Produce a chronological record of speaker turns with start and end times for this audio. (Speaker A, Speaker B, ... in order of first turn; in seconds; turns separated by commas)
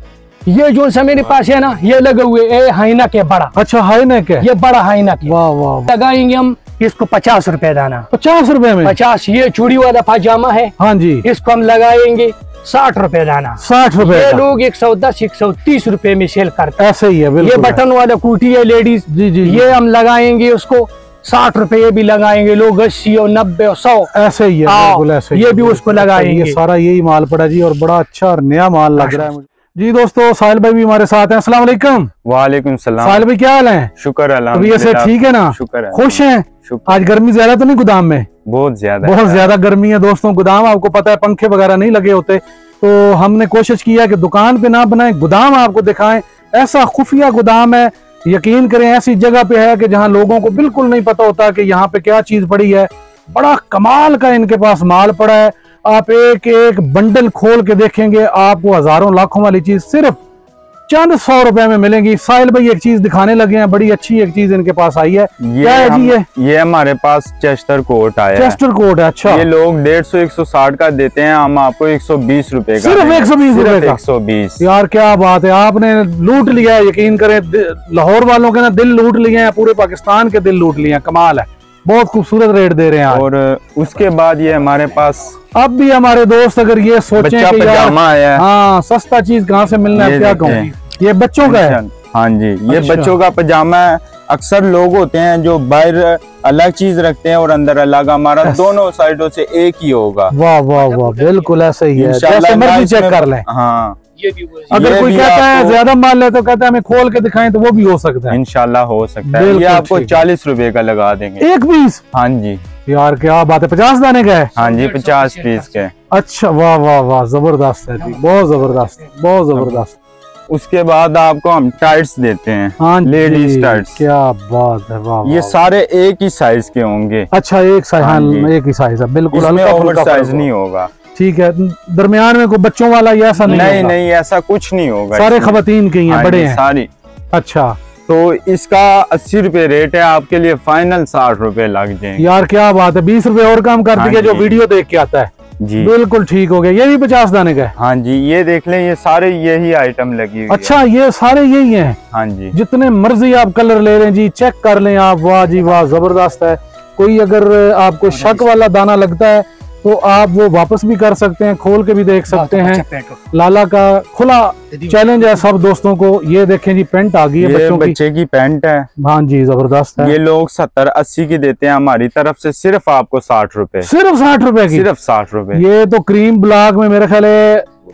Speaker A: 0.5-3.5, Speaker B: 3.5-4.5, Speaker A: 4.4-8.1, Speaker B: 5.2-5.9, Speaker B: 8.1-8.9, Speaker A: 8.8-16.8, Speaker B: 10.8-11.2, Speaker B: 13.6-14.4, Speaker B: 16.8-17.8, Speaker A: 17.4-24.1, Speaker B: 19.1-19.7, Speaker B: 24.1-32.1, Speaker A: 24.6-26.6, Speaker A: 29.0-29.3, Speaker C: 32.2-33.3, Speaker B: 33.0-33.9, Speaker C: 34.0-37.1, Speaker B: 34.5-38.3, Speaker C: 38.4-39.5, Speaker B: 39.0-60.2, Speaker B: 60.9-66.2, Speaker C: 65.4-68.6, Speaker B: 68.3-69.5, Speaker C: 69.2-74.6, Speaker B: 72.8-74.0, Speaker B: 74.6-83.2, Speaker C: 83.1-85.3, Speaker B: 85.5-91.8, Speaker C: 87.2-88.4, Speaker C: 89.9-90.7, Speaker C: 91.4-100.3, Speaker B: 92.7-93.1, Speaker B: 98.4-98.7, Speaker B: 100.3-103.4, Speaker A: 100.7-101.5, Speaker C: 101.9-104.0, Speaker A: 104.2-105.1, Speaker C: 104.7-105.8, Speaker B: 104.7-108.4, Speaker C: 108.3-111.5, Speaker B: 109.2-110.2, Speaker B: 111.4-112.0, Speaker C: 112.1-112.6, Speaker B: 112.8-114.5, Speaker A: 114.6-115.7, Speaker C: 114.6-115.9, Speaker B: 116.1-120.0, Speaker C: 119.5-119.8, Speaker C: 120.5-124.0, Speaker B: 122.8-125.6, Speaker C: 125.2-127.3, Speaker B: 127.3-130.5, Speaker C: 128.0-128.5, Speaker C: 129.3-130.9, Speaker B: 131.1-133.9, Speaker C: 133.4-136.9, Speaker B: 135.1-136.6, Speaker B: 137.3-137.8, Speaker C: 138.1-142.3, Speaker B: 142.2-147.7, Speaker C: 143.9-144.6, Speaker C: 145.6-145.9, Speaker C: 147.8-150.8, Speaker B: 150.5-152.0, Speaker C: 152.1-152.6, Speaker B: 152.5-167.9, Speaker A: 162.3-163.2, Speaker A: 164.8-165.1, Speaker C: 167.4-168.9, Speaker B: 169.0-170.2, Speaker C: 170.0-173.9, Speaker B: 173.8-174.9, Speaker C: 174.7-175.6, Speaker B: 175.5-177.7